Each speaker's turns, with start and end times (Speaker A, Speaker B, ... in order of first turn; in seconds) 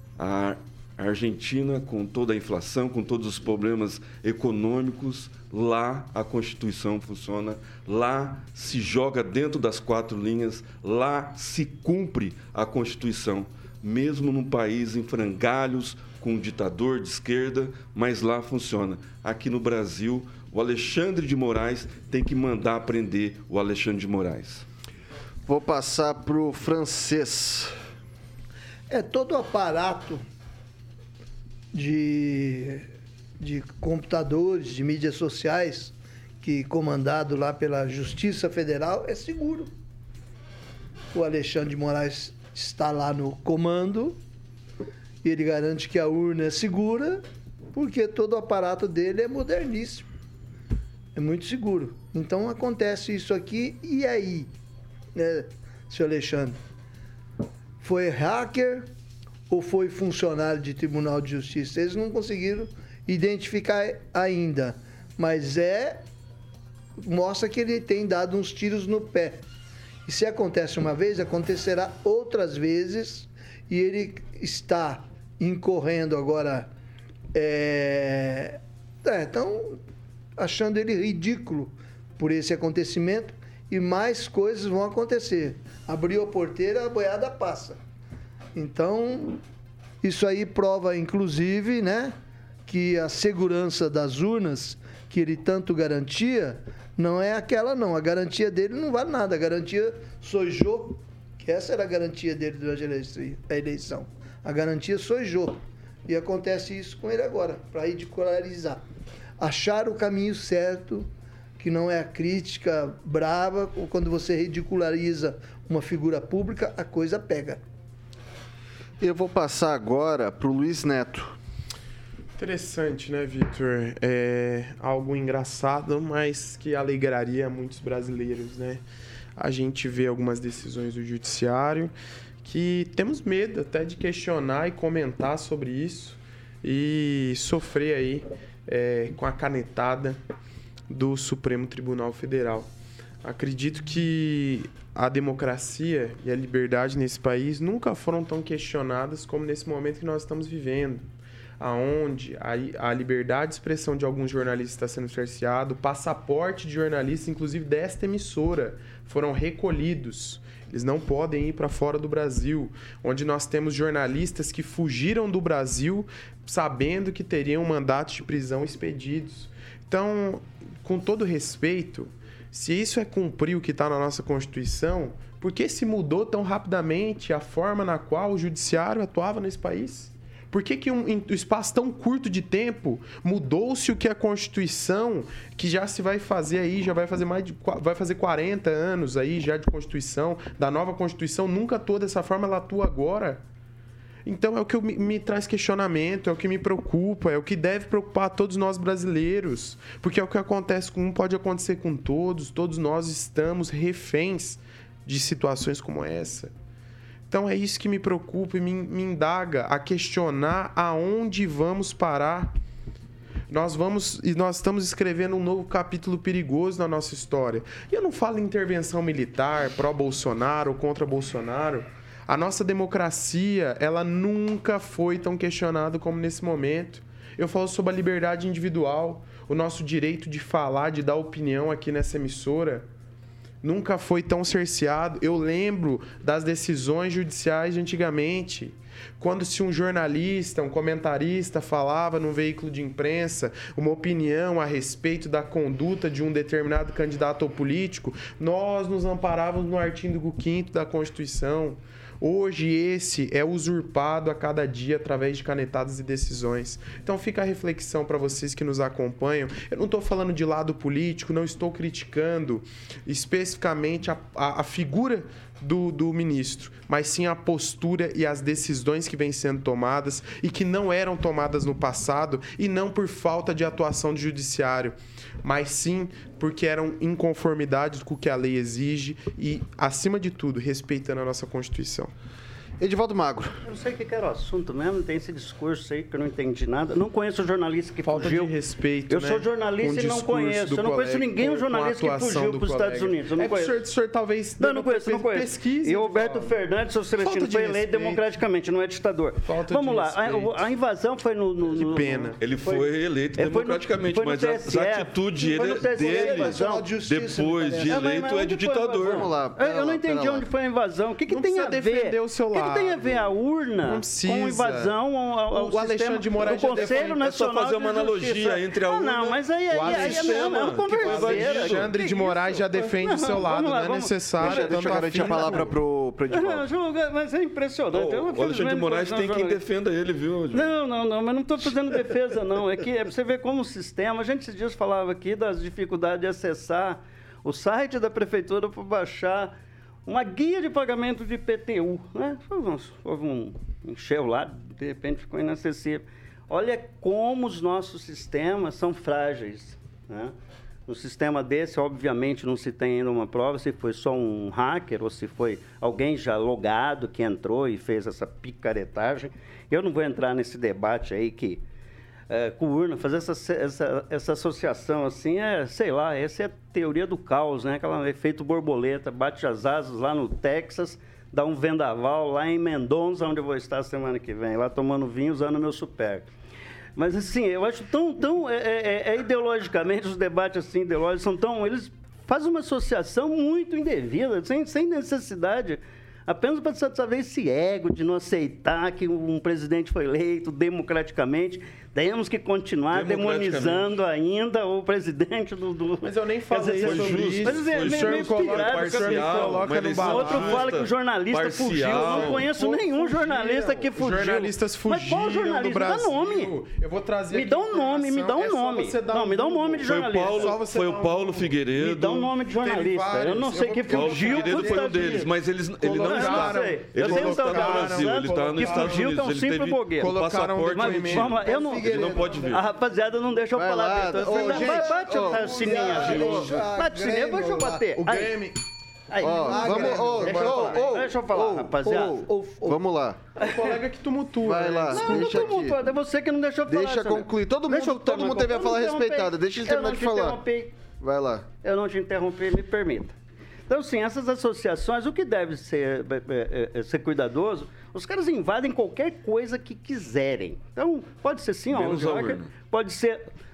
Speaker A: 0.2-24.6, 302.4-309.3, 316.6-321.9, 327.9-330.8, 392.9-394.0, 396.7-402.5, 409.8-412.3, 413.9-422.7, 451.7-452.5
Speaker B: 25.5-27.7, 119.0-121.4, 282.8-283.6, 309.0-310.5, 324.4-326.7, 423.5-425.7, 429.2-433.2, 434.4-435.8, 436.7-440.4, 441.0-441.5
Speaker C: 28.9-30.2, 31.7-32.9, 33.4-39.7, 41.1-44.2, 45.2-47.2, 47.7-50.1, 51.1-54.5, 55.1-56.6, 57.8-58.9, 59.5-66.0, 67.0-69.4, 70.1-76.7, 77.3-79.8, 80.4-87.8, 88.5-89.4, 90.0-92.1, 92.7-108.8, 109.4-111.1, 111.6-117.6, 305.4-307.9, 421.3-422.6, 424.3-428.0, 429.4-430.7, 431.9-432.8
Speaker D: 122.4-128.8, 129.4-140.2, 140.9-142.7, 143.2-151.1, 151.6-193.4, 194.3-206.5, 207.3-212.5, 213.5-232.9, 233.6-282.1, 288.0-296.6, 297.2-298.3, 299.4-300.7, 301.6-302.4, 311.3-315.0, 315.5-317.2, 319.7-325.7, 396.0-400.7, 401.8-411.6, 412.5-419.2, 420.0-421.4, 424.2-426.7, 428.0-428.6, 429.5-431.0, 433.4-435.4
Speaker E: 283.6-288.5, 289.1-293.8, 294.6-306.9, 307.9-325.7, 326.3-329.6, 330.5-339.5, 340.1-350.3, 350.9-361.6, 362.3-376.3, 377.0-406.5, 407.3-410.6, 411.8-415.3, 416.0-420.1, 420.7-428.4, 429.1-432.2, 433.4-433.7, 434.9-440.7, 441.6-443.1, 443.7-453.2